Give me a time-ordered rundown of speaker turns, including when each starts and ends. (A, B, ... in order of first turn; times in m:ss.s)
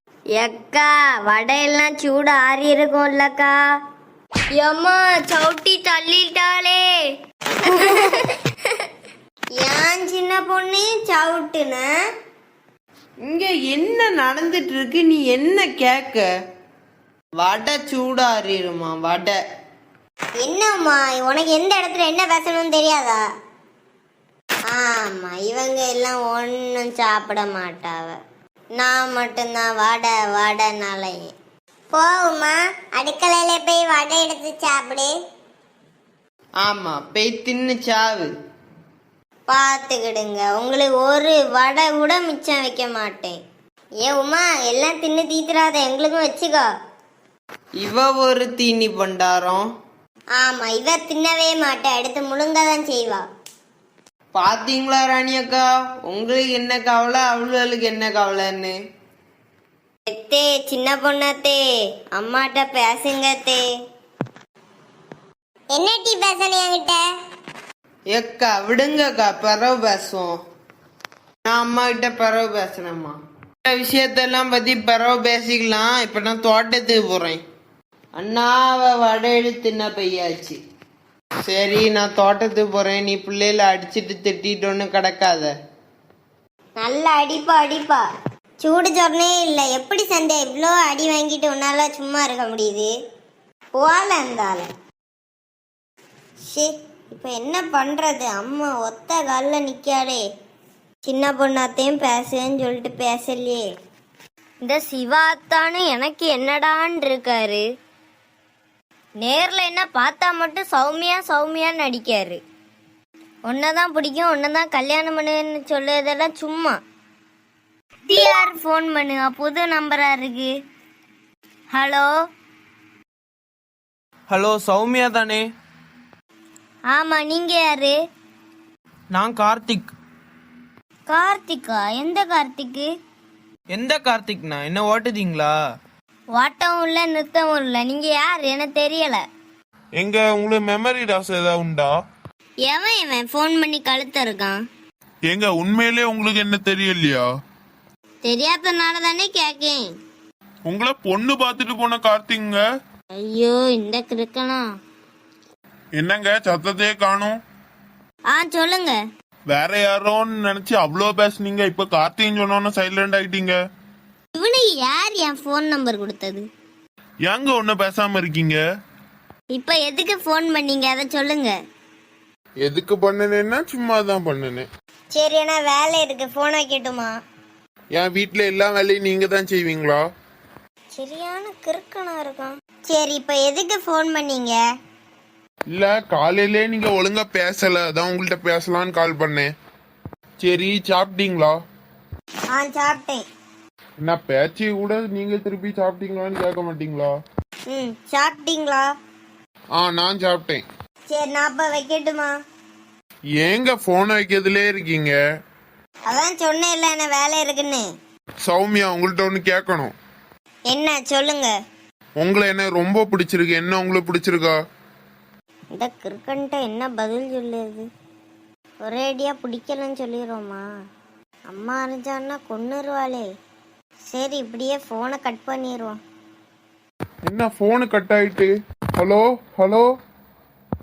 0:00.3-0:03.6 A
0:04.5-0:06.9 A
0:07.6-0:08.4 A
0:09.6-0:11.9 A
0:13.2-0:16.2 B
0:17.4-0:19.4 B
0:20.4-0:23.2 A
0:24.7-0:28.2 A
0:28.8-0:31.3 A
0:31.9-0:35.1 C
0:36.6-0:38.3 B
0:39.5-0:43.4 A
0:44.0-0:46.7 A
0:47.8-0:49.6 B
0:50.4-0:53.2 A
0:54.3-0:58.7 B
1:00.1-1:01.6 A
1:02.1-1:03.6 A
1:05.7-1:07.0 C
1:08.1-1:10.3 B
1:11.4-1:17.4 B
1:18.2-1:20.6 B
1:21.5-1:25.5 B
1:26.8-1:28.0 A
1:28.6-1:32.9 A
1:33.8-1:34.7 A
1:36.5-1:40.2 A
1:41.0-1:43.7 A
1:44.6-1:47.6 A
1:49.2-1:52.4 A
1:53.5-1:56.8 A
1:58.1-2:00.5 A
2:01.7-2:02.1 A
2:04.3-2:05.4 B
2:06.9-2:08.0 A
2:09.1-2:09.9 B
2:11.1-2:12.9 A
2:13.7-2:15.5 B
2:16.3-2:19.2 A
2:20.0-2:21.9 B
2:22.6-2:24.6 A
2:25.3-2:27.2 D
2:28.2-2:29.9 A
2:30.7-2:32.6 D
2:33.1-2:34.7 A
2:36.0-2:37.4 D
2:38.3-2:39.0 A
2:39.5-2:43.6 D
2:44.3-2:46.5 A
2:47.2-2:48.6 D
2:49.5-2:51.6 A
2:52.6-2:54.7 D
2:55.1-2:57.1 A
2:57.9-3:00.0 D
3:00.9-3:04.6 A
3:05.7-3:09.5 D
3:10.4-3:11.6 D
3:12.5-3:13.2 A
3:14.0-3:17.1 D
3:17.7-3:18.9 A
3:19.8-3:20.6 D
3:21.1-3:22.3 A
3:23.4-3:25.2 D
3:26.1-3:27.8 A
3:28.4-3:29.9 D
3:30.7-3:31.5 A
3:32.2-3:34.6 D
3:35.7-3:37.9 A
3:38.8-3:40.6 A
3:41.5-3:43.2 A
3:44.1-3:46.0 A
3:47.2-3:49.9 D